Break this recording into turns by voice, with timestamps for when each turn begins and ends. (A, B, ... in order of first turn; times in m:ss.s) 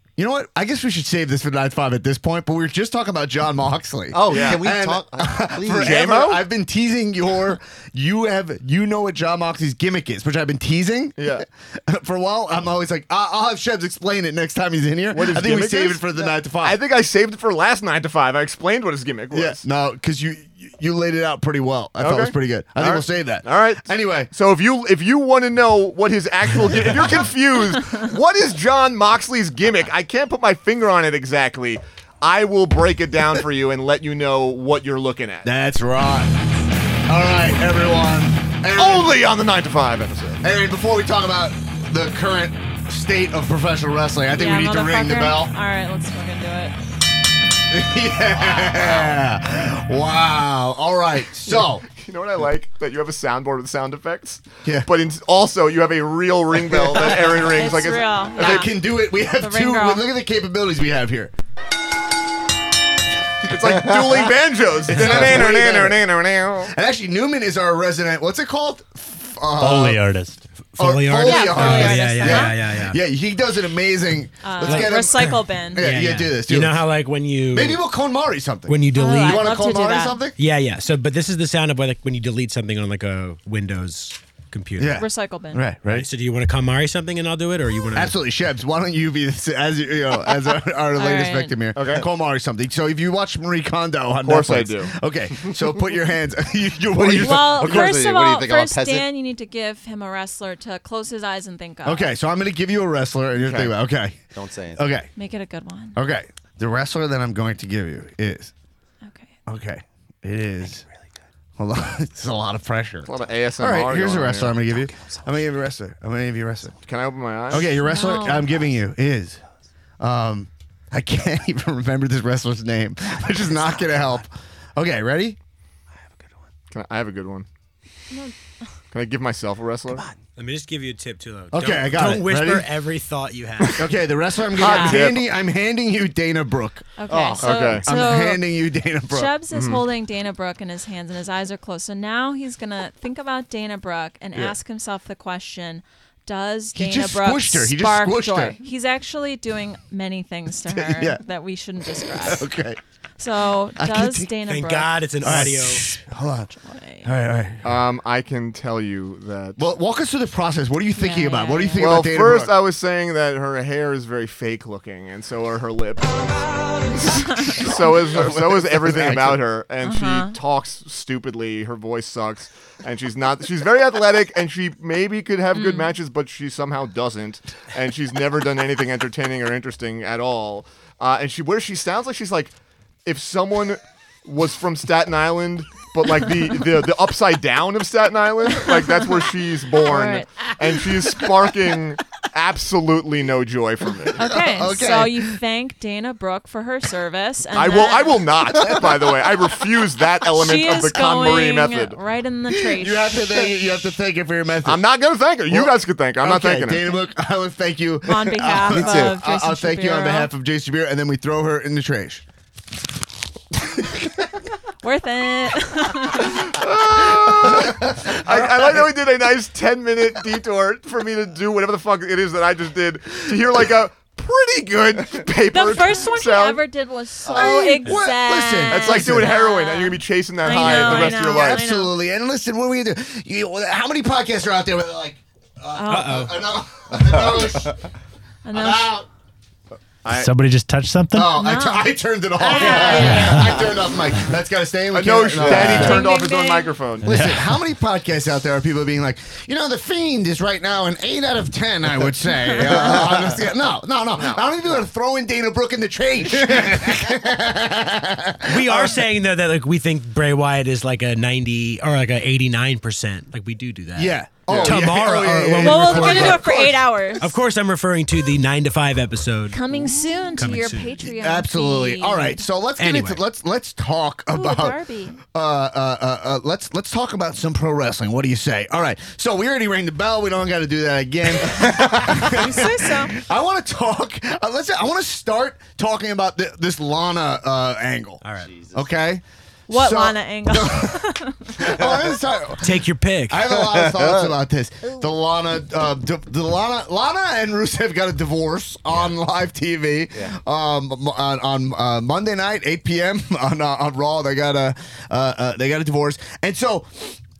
0:00.2-0:16.8 A
0:04.1-0:06.0 B
0:04.3-0:04.7 C
0:05.8-0:06.4 C
0:11.2-0:11.4 C
0:15.1-0:19.6 C
0:19.3-0:24.3 A
0:22.0-0:35.5 C
0:35.4-0:36.3 A
0:37.1-0:39.1 A
0:38.8-0:40.4 C
0:40.4-0:45.5 A
0:44.3-0:46.8 D
0:47.7-0:51.8 A
0:51.5-0:58.7 C
0:57.5-1:00.0 D
0:58.4-1:01.3 A
1:03.4-1:06.7 C
1:04.9-1:06.0 A
1:06.7-1:10.0 A
1:09.6-1:10.4 E
1:10.7-1:13.0 F
1:10.8-1:16.8 A
1:11.2-1:12.6 D
1:14.4-1:15.9 D
1:14.6-1:17.8 F
1:17.5-1:20.4 A
1:18.7-1:19.5 F
1:18.9-1:20.2 D
1:20.4-1:25.0 F
1:24.8-1:26.1 A
1:24.9-1:25.6 D
1:25.9-1:28.1 F
1:27.9-1:38.0 A
1:31.0-1:31.6 D
1:31.7-1:32.0 C
1:34.2-1:34.9 C
1:36.9-1:39.1 B
1:37.1-1:42.1 D
1:41.8-1:44.2 A
1:43.4-1:43.7 C
1:44.3-1:44.8 B
1:44.8-1:45.1 A
1:45.2-1:46.0 D
1:46.0-1:48.5 A
1:49.0-1:49.3 D
1:49.5-1:50.8 A
1:51.6-1:56.7 A
1:53.0-1:54.6 C
1:56.7-1:57.7 C
1:57.5-1:59.4 A
1:57.8-1:58.5 D
2:00.0-2:05.4 A
2:06.7-2:07.4 C
2:08.9-2:10.0 C
2:10.4-2:13.8 F
2:11.5-2:12.7 A
2:13.8-2:16.9 A
2:14.6-2:15.3 C
2:14.6-2:15.0 D
2:17.0-2:18.4 D
2:17.1-2:17.7 B
2:17.4-2:17.8 C
2:17.5-2:19.3 A
2:19.1-2:32.5 D
2:19.5-2:19.8 C
2:26.7-2:28.6 A
2:30.7-2:31.2 A
2:32.0-2:32.8 A
2:33.2-2:34.9 D
2:33.8-2:34.3 A
2:34.5-2:35.8 F
2:35.2-2:36.5 A
2:36.6-2:37.1 D
2:37.0-2:37.8 A
2:37.6-2:39.6 C
2:39.6-2:42.5 A
2:41.0-2:42.0 D
2:41.8-3:02.5 C
2:48.0-2:49.4 A
2:49.8-2:50.4 D
2:55.5-2:55.9 D
3:03.0-3:14.2 C
3:09.8-3:10.3 D
3:14.1-3:15.3 A
3:14.2-3:18.8 D
3:17.5-3:22.0 C
3:18.6-3:19.2 A
3:20.2-3:23.5 D
3:22.5-3:24.8 A
3:24.6-3:26.9 C
3:25.5-3:32.2 A
3:28.0-3:30.3 D
3:28.7-3:29.1 B
3:33.8-3:34.1 A
3:34.8-3:36.5 D
3:36.2-3:46.6 C
3:37.1-3:38.9 A
3:45.5-3:51.9 D
3:47.2-3:49.3 A
3:47.3-3:47.6 B
3:48.7-3:51.6 C
3:50.5-3:57.8 A
3:55.7-3:56.3 D
3:55.9-3:56.3 F
3:58.4-3:59.0 D
3:58.5-3:59.1 A
4:00.0-4:00.3 C
4:00.0-4:01.4 E
4:01.1-4:06.1 A
4:01.3-4:03.7 D
4:03.0-4:03.5 E
4:04.9-4:07.3 C
4:05.7-4:06.8 D
4:07.0-4:07.5 E
4:07.0-4:19.0 A
4:12.8-4:13.2 B
4:18.4-4:26.5 F
4:23.9-4:27.1 A
4:24.5-4:24.8 C
4:25.6-4:27.3 D
4:27.2-4:29.6 F
4:29.5-4:32.5 D
4:30.4-4:30.9 F
4:31.0-4:34.8 A
4:32.8-4:33.2 F
4:34.3-4:35.2 D
4:35.3-4:51.0 A
4:42.2-4:43.1 D
4:48.2-4:48.5 F
4:48.4-4:48.9 B
4:49.7-4:51.6 D
4:51.6-5:07.2 A
4:51.6-4:52.1 B
4:52.6-4:53.5 F
4:53.5-4:54.3 B